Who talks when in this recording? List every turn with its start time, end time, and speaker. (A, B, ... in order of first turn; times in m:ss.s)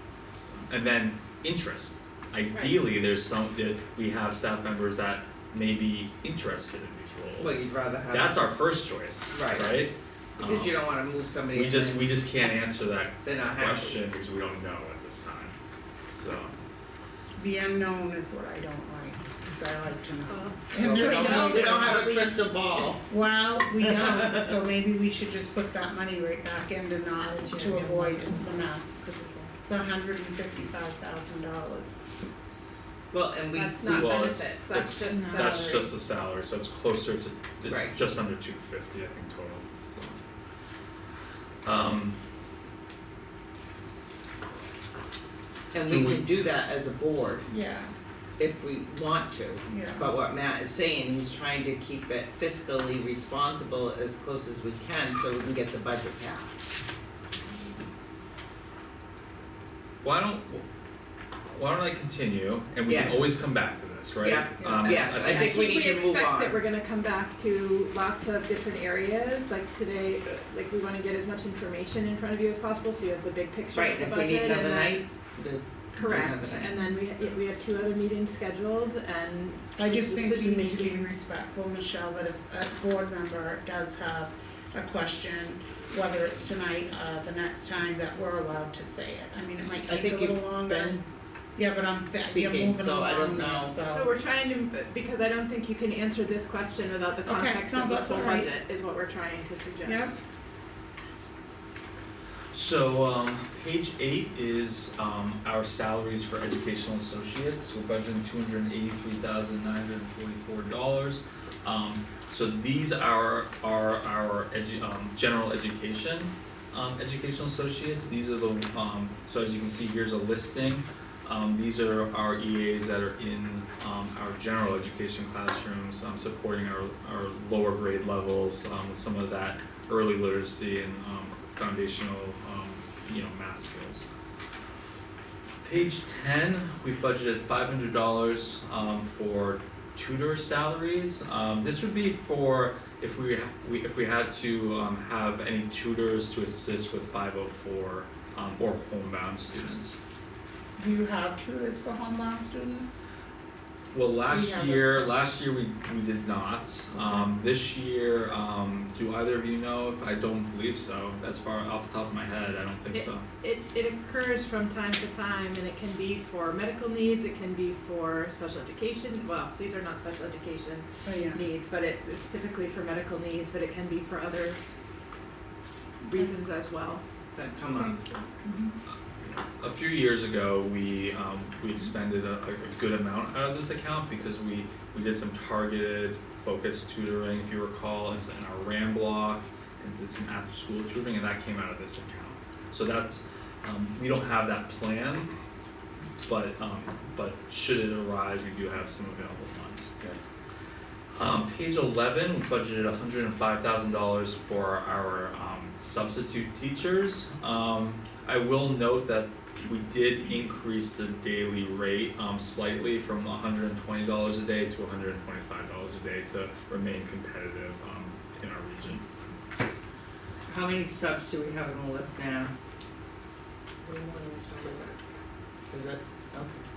0:00.3-0:10.9 A
0:02.5-0:02.8 B
0:07.4-0:08.5 C
0:09.3-0:09.8 C
0:10.4-0:12.2 C
0:11.5-0:15.5 A
0:13.2-0:14.0 C
0:16.1-0:16.5 A
0:17.4-0:22.1 D
0:20.3-0:22.4 B
0:20.8-0:23.1 C
0:21.0-0:21.5 A
0:23.0-0:29.0 D
0:27.3-0:29.5 E
0:29.6-0:32.0 D
0:33.1-0:34.0 C
0:33.5-0:35.9 B
0:33.8-0:40.2 A
0:37.6-0:38.0 C
0:41.6-0:42.2 A
0:45.7-0:47.4 C
0:45.8-0:46.3 A
0:47.4-0:47.9 D
0:48.4-0:56.6 C
0:49.6-0:50.1 D
1:00.0-1:00.6 A
1:01.5-1:05.7 A
1:02.8-1:03.4 C
1:04.2-1:06.6 C
1:04.8-1:15.0 B
1:13.7-1:16.7 C
1:16.0-1:21.1 B
1:19.8-1:31.0 D
1:29.9-1:31.0 C
1:31.6-1:34.1 D
1:32.2-1:33.8 C
1:33.9-1:40.2 B
1:37.2-1:38.5 D
1:39.8-1:40.1 D
1:42.5-2:14.1 A
2:15.6-2:30.0 A
2:30.8-2:33.0 D
2:33.9-2:43.2 A
2:34.2-2:35.2 D
2:42.9-2:54.6 B
2:51.0-2:51.5 D
2:56.1-2:57.0 B
2:57.3-2:57.9 C
2:57.7-2:58.4 D
2:59.2-3:15.3 A
3:16.2-3:20.2 A
3:21.1-3:39.0 A
3:40.5-3:42.5 C
3:43.8-3:44.9 E
3:45.7-3:46.6 C